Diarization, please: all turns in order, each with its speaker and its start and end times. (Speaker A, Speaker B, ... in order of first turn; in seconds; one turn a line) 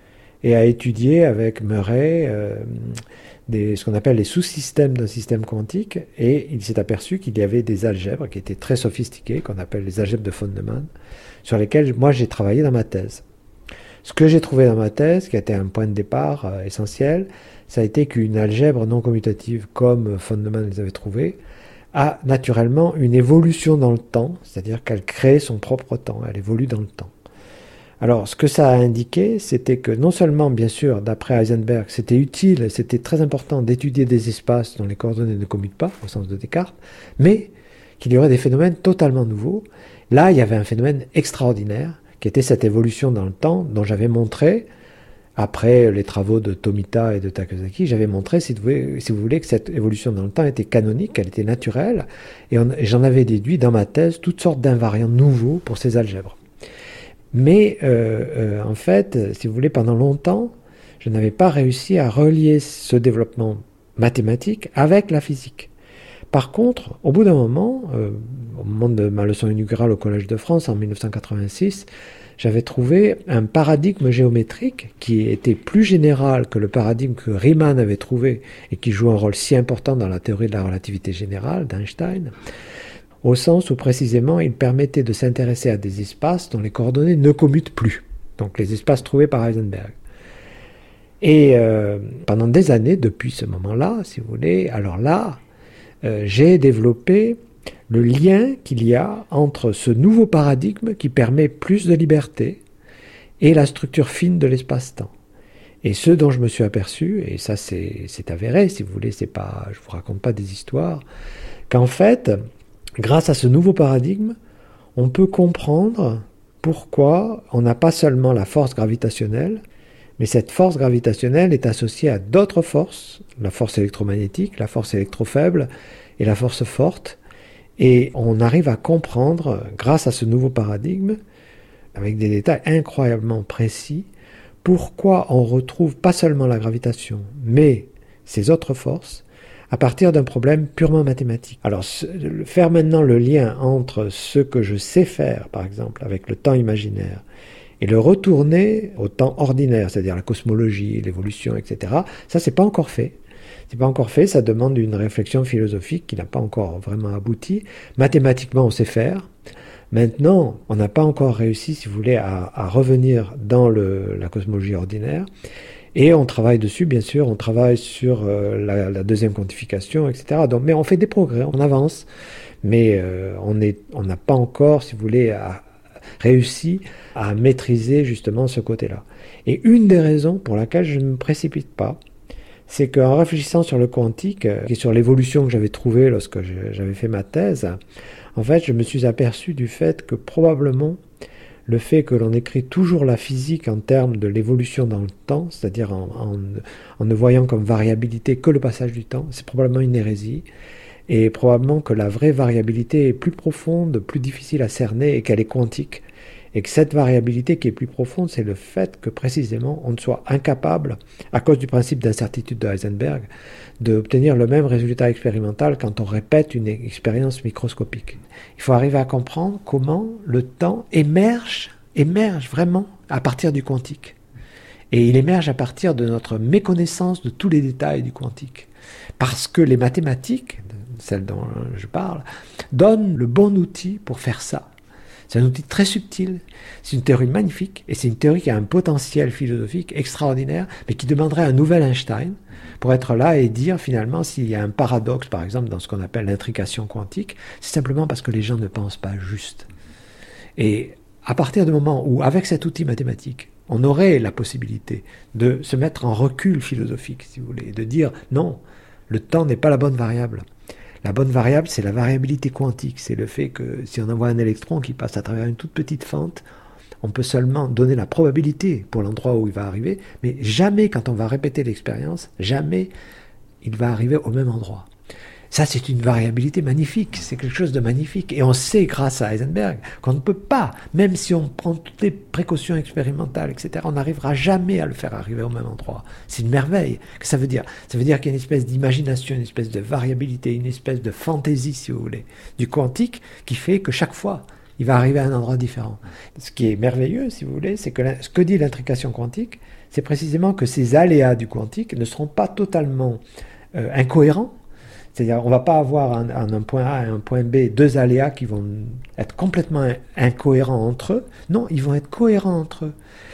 Speaker A: 0.4-10.9
Speaker A: 11.4-13.2
Speaker A: 14.0-21.4
Speaker A: 21.9-27.1
Speaker A: 28.0-44.7
Speaker A: 45.4-56.4
Speaker A: 57.3-65.7
Speaker A: 66.3-71.9
Speaker A: 72.4-82.3
Speaker A: 83.2-89.9
Speaker A: 91.2-95.4
Speaker A: 96.0-102.6
Speaker A: 103.4-105.1
Speaker A: 105.8-111.0
Speaker A: 111.7-112.4
Speaker A: 113.0-114.4
Speaker A: 115.0-119.6
Speaker A: 120.2-127.2
Speaker A: 127.8-131.2
Speaker A: 131.9-134.1
Speaker A: 134.6-147.2
Speaker A: 147.8-153.2
Speaker A: 153.7-159.3
Speaker A: 159.9-165.3
Speaker A: 165.9-172.1
Speaker A: 172.6-175.6
Speaker A: 176.2-182.0
Speaker A: 182.7-187.8
Speaker A: 188.3-191.0
Speaker A: 191.7-200.4
Speaker A: 201.1-213.3
Speaker A: 213.8-224.2
Speaker A: 224.9-228.7
Speaker A: 229.2-234.7
Speaker A: 235.3-249.7
Speaker A: 250.6-260.4
Speaker A: 261.0-266.4
Speaker A: 267.0-272.9
Speaker A: 273.6-274.9
Speaker A: 275.5-303.2
Speaker A: 303.7-304.6
Speaker A: 305.1-312.9